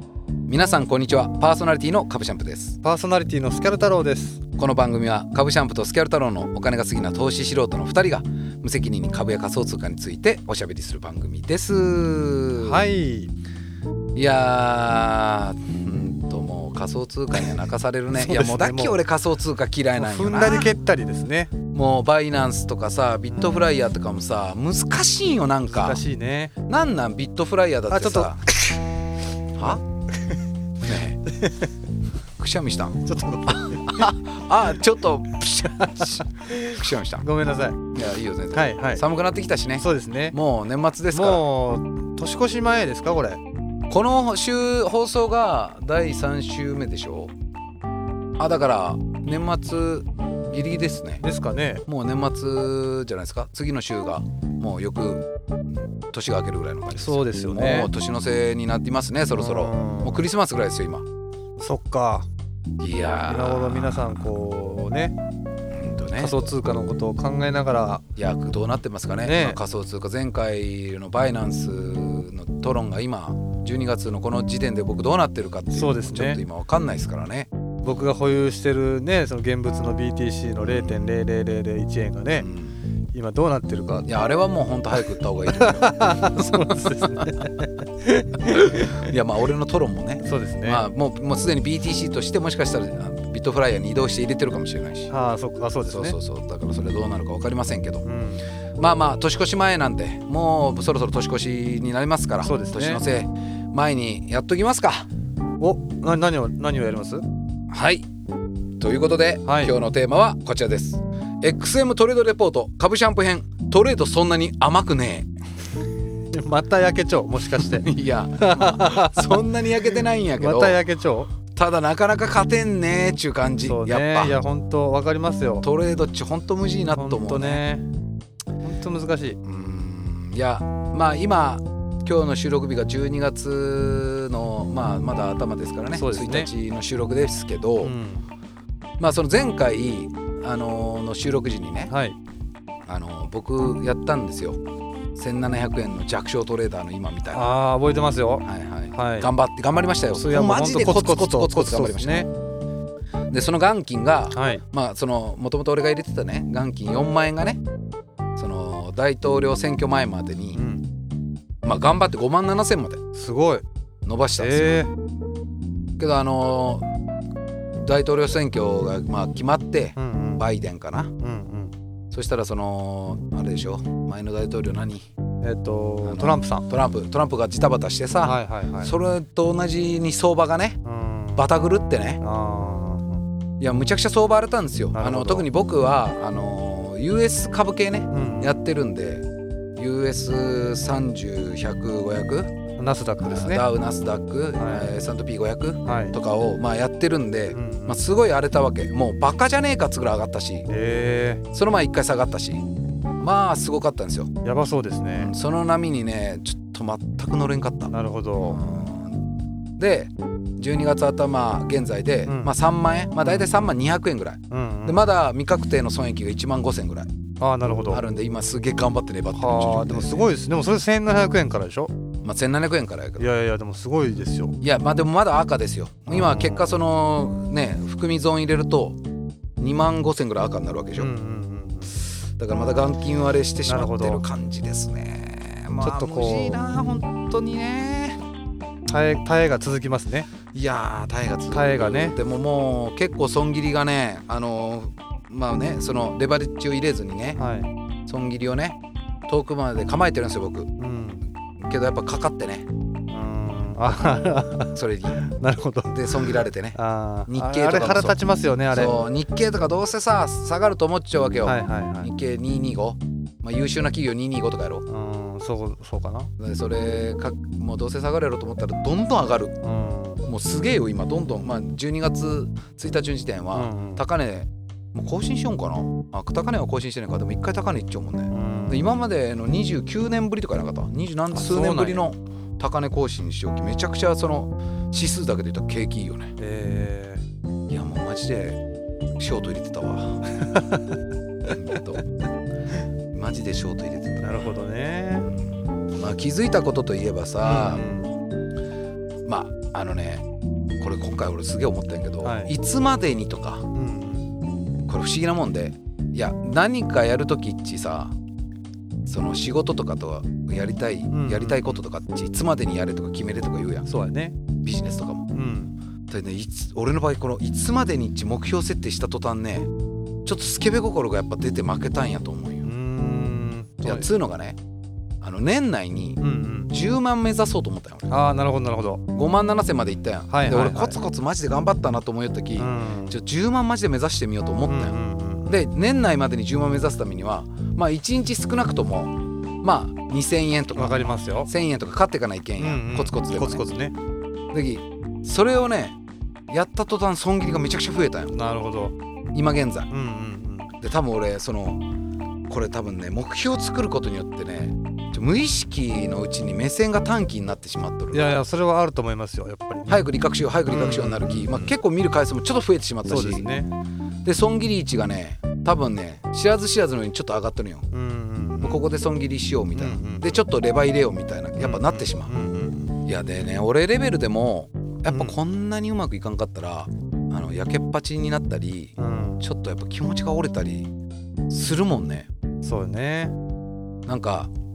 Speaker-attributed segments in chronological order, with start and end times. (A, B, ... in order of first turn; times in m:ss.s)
0:00.5-0:02.8 A
0:02.8-0:04.4 B
0:04.6-0:12.8 A
0:12.6-0:13.3 B
0:14.2-0:20.7 A
0:18.1-0:19.0 B
0:20.0-0:21.5 B
0:21.7-0:26.0 A
0:25.7-0:26.5 B
0:26.7-0:28.4 A
0:27.9-0:28.8 B
0:29.6-0:29.8 A
0:30.8-0:31.2 A
0:31.3-0:31.7 B
0:32.4-0:37.3 A
0:33.0-0:34.1 B
0:35.8-0:37.8 B
0:37.9-0:41.4 A
0:38.5-0:39.0 B
0:39.8-0:40.4 B
0:41.1-0:43.4 B
0:43.9-0:47.3 A
0:48.4-0:51.2 A
0:51.2-0:51.8 B
0:51.9-0:55.3 A
0:56.1-1:01.0 A
0:56.9-0:57.9 B
0:59.3-1:00.3 B
1:01.6-1:02.3 B
1:02.8-1:04.3 A
1:03.2-1:05.2 B
1:05.7-1:06.4 A
1:06.2-1:08.0 B
1:08.2-1:17.5 A
1:09.2-1:09.6 B
1:15.7-1:16.4 B
1:17.8-1:22.5 B
1:20.7-1:21.0 A
1:22.4-1:22.8 A
1:23.1-1:24.1 B
1:24.1-1:27.5 A
1:25.5-1:28.9 B
1:28.4-1:35.1 A
1:30.2-1:30.8 B
1:35.1-1:36.2 B
1:35.9-1:38.1 A
1:38.0-1:38.4 B
1:38.8-1:45.1 A
1:42.4-1:43.0 B
1:45.6-1:47.2 B
1:47.7-1:48.1 A
1:48.8-1:55.3 A
1:49.5-1:49.8 B
1:56.3-1:57.9 B
1:57.5-2:00.8 A
1:58.4-2:01.3 B
2:01.5-2:04.4 A
2:03.6-2:05.6 B
2:05.6-2:07.6 A
2:07.0-2:07.9 B
2:08.6-2:09.4 B
2:09.4-2:17.9 A
2:15.9-2:16.5 B
2:17.8-2:18.2 B
2:19.0-2:21.9 A
2:21.9-2:22.2 B
2:22.9-2:24.6 A
2:25.2-2:27.5 A
2:27.3-2:29.3 B
2:28.4-2:32.3 A
2:30.1-2:32.3 B
2:33.3-2:37.6 A
2:34.3-2:34.6 B
2:38.4-2:40.6 A
2:40.6-2:40.9 B
2:41.6-2:43.0 A
2:43.1-2:43.6 B
2:44.0-2:44.9 A
2:44.4-2:44.9 B
2:46.0-2:46.9 A
2:47.8-2:51.1 A
2:50.0-2:50.4 B
2:51.2-2:51.7 B
2:52.1-2:55.1 A
2:55.4-2:56.7 B
2:56.0-3:00.8 A
2:58.2-2:58.9 B
3:00.8-3:01.5 B
3:01.4-3:02.2 A
3:02.2-3:03.2 B
3:03.6-3:12.6 A
3:05.0-3:05.5 B
3:08.1-3:08.6 B
3:12.8-3:13.7 B
3:13.2-3:20.7 A
3:14.6-3:14.9 B
3:15.8-3:16.2 B
3:17.5-3:18.0 B
3:20.7-3:21.4 B
3:21.5-3:22.7 A
3:23.2-3:24.3 A
3:24.4-3:25.3 B
3:25.2-3:29.2 A
3:27.9-3:28.6 B
3:29.8-3:37.1 A
3:32.3-3:32.5 B
3:33.2-3:33.7 B
3:34.5-3:35.0 B
3:37.4-3:38.0 B
3:37.9-3:40.3 A
3:39.3-3:41.9 B
3:42.2-3:43.3 A
3:43.2-3:44.6 B
3:44.6-3:49.0 A
3:46.1-3:46.7 B
3:49.6-3:51.1 A
3:51.0-3:52.0 B
3:52.4-3:58.2 A
3:53.7-3:54.2 B
3:55.8-3:56.6 B
3:58.9-4:00.3 B
4:00.5-4:07.4 A
4:01.5-4:02.2 B
4:07.4-4:07.7 B
4:08.1-4:10.7 A
4:10.8-4:11.2 B
4:11.6-4:12.7 A
4:13.1-4:19.0 B
4:14.7-4:15.2 A
4:15.9-4:18.2 A
4:18.7-4:24.9 A
4:21.4-4:22.1 B
4:24.9-4:26.3 B
4:26.4-4:29.6 A
4:29.6-4:30.3 B
4:30.3-4:46.3 A
4:33.5-4:34.0 B
4:38.3-4:38.9 B
4:41.3-4:42.1 B
4:46.4-4:47.2 B
4:47.7-4:48.6 A
4:49.2-4:50.3 A
4:50.4-4:51.0 B
4:51.5-4:52.1 A
4:53.1-4:54.5 A
4:54.2-4:55.3 B
4:55.3-4:57.9 A
4:57.4-4:58.2 B
4:59.3-5:00.2 A
5:00.8-5:03.7 A
5:02.2-5:02.5 B
5:03.7-5:04.3 B
5:04.9-5:08.2 A
5:09.1-5:13.9 A
5:11.1-5:11.8 B
5:13.9-5:14.4 B
5:14.6-5:15.3 A
5:15.3-5:15.8 B
5:16.1-5:19.7 A
5:20.2-5:22.7 A
5:22.6-5:24.1 B
5:23.8-5:24.6 A
5:25.2-5:28.1 A
5:26.2-5:26.7 B
5:28.1-5:29.0 B
5:29.1-5:43.6 A
5:30.3-5:31.0 B
5:32.6-5:33.1 B
5:34.6-5:35.6 B
5:40.8-5:41.5 B
5:42.6-5:44.0 B
5:44.5-5:46.0 A
5:46.5-5:48.4 A
5:48.3-5:49.0 B
5:49.3-5:49.9 A
5:49.9-5:50.7 B
5:50.8-5:51.8 A
5:52.5-5:58.4 A
5:58.1-6:00.1 B
5:59.9-6:03.5 A
6:00.7-6:01.7 B
6:03.1-6:03.7 B
6:04.2-6:07.9 A
6:07.9-6:08.8 B
6:08.6-6:12.3 A
6:09.8-6:10.3 B
6:11.6-6:13.0 B
6:13.0-6:20.9 A
6:15.1-6:15.4 B
6:19.0-6:19.4 B
6:21.5-6:22.3 A
6:22.6-6:23.4 B
6:24.1-6:24.5 A